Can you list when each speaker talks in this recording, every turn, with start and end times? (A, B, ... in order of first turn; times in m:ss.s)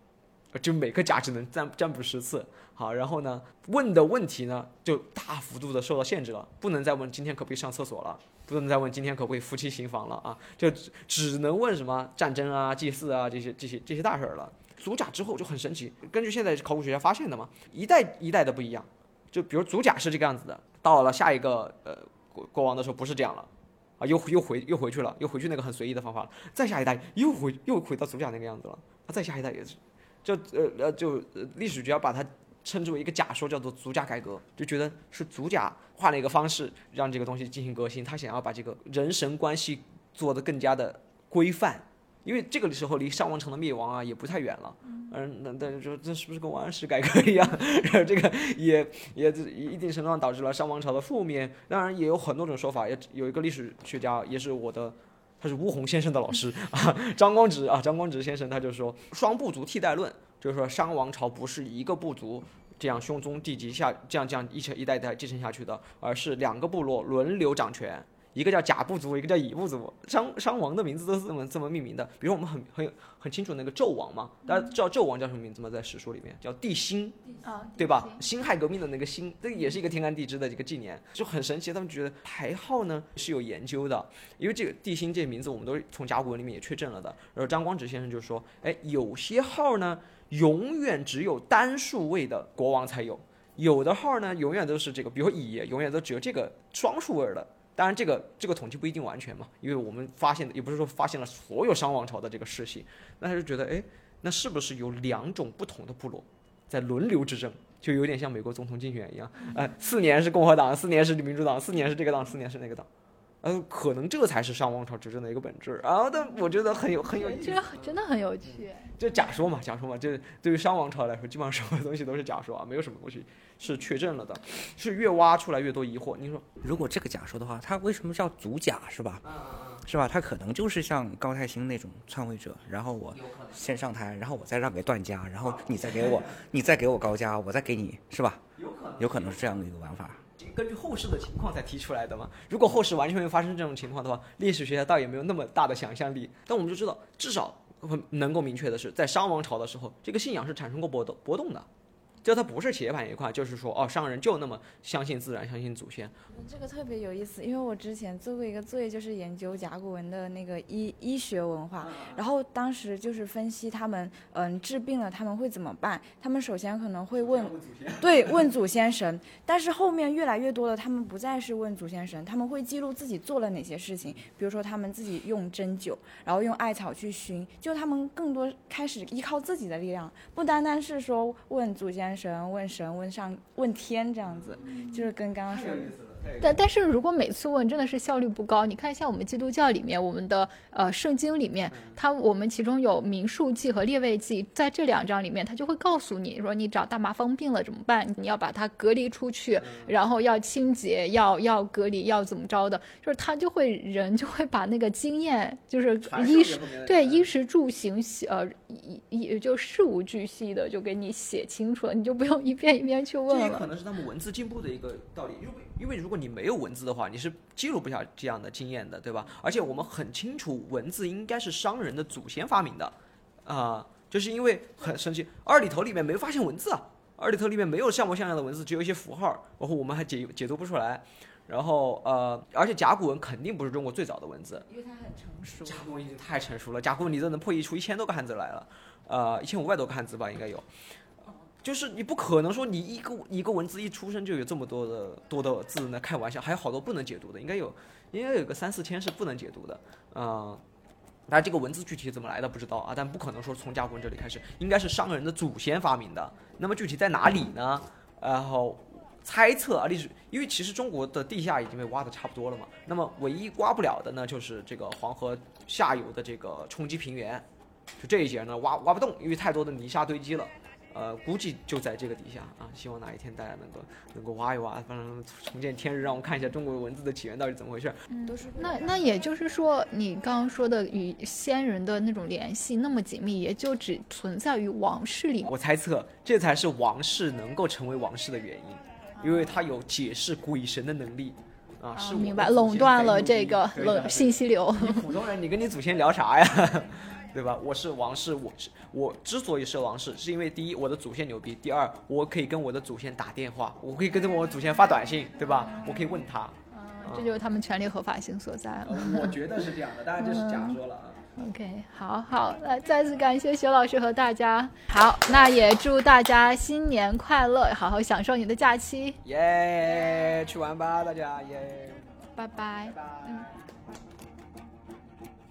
0:00.5-0:23.5 A
0:24.0-1:52.9 A
1:17.4-1:18.2 B
1:53.4-1:58.0 A
1:57.2-1:58.9 B
1:58.5-2:06.5 A
2:06.6-2:09.2 C
2:09.2-2:09.8 A
2:09.8-2:18.4 C
2:13.2-2:13.5 A
2:15.8-2:16.3 A
2:18.6-2:19.5 A
2:19.0-2:20.2 C
2:20.4-2:31.7 A
2:32.2-2:36.2 A
2:36.3-3:06.0 D
2:41.8-2:42.2 A
2:47.2-2:48.5 A
3:05.5-3:06.6 A
3:06.4-3:33.7 B
3:11.7-3:12.0 A
3:19.6-3:19.9 A
3:26.0-3:27.3 A
3:33.3-3:54.7 A
3:54.7-3:55.8 D
3:55.6-4:00.7 A
4:01.6-4:10.6 A
4:11.3-4:27.4 A
4:28.0-4:38.0 A
4:38.1-4:45.5 B
4:38.3-4:39.3 D
4:45.4-5:07.4 A
4:52.0-4:55.0 B
5:05.6-5:06.2 B
5:06.7-5:09.4 B
5:08.8-5:11.2 A
5:10.2-5:10.8 B
5:11.4-5:19.2 B
5:19.2-5:22.0 A
5:22.4-5:23.5 B